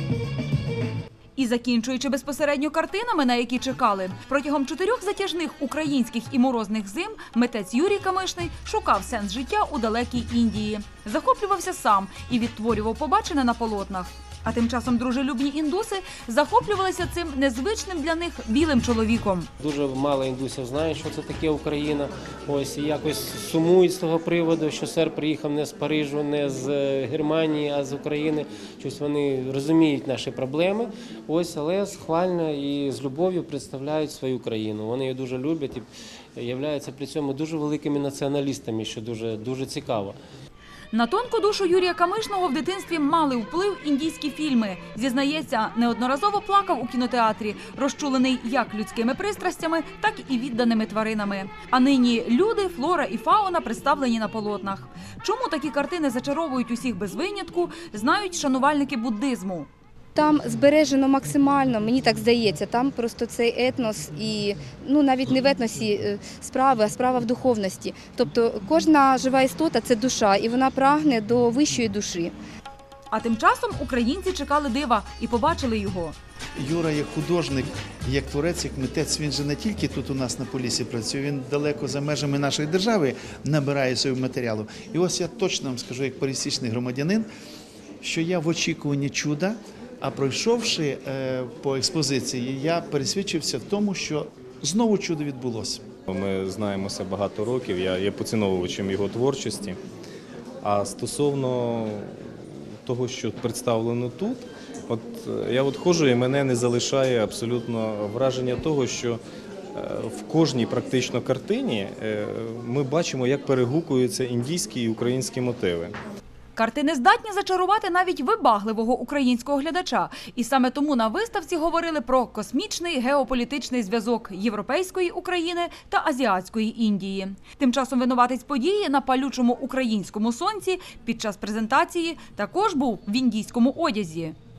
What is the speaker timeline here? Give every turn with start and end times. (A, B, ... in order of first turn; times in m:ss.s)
0:01.4-0:19.5 A
0:19.6-0:40.2 B
0:40.9-0:59.7 A
1:00.2-1:12.4 C
1:13.1-1:16.2 A
1:16.6-1:27.3 D
1:28.0-1:35.9 D
1:36.1-1:39.8 E
1:40.6-1:49.2 E
1:49.7-1:56.0 E
1:56.6-2:14.4 A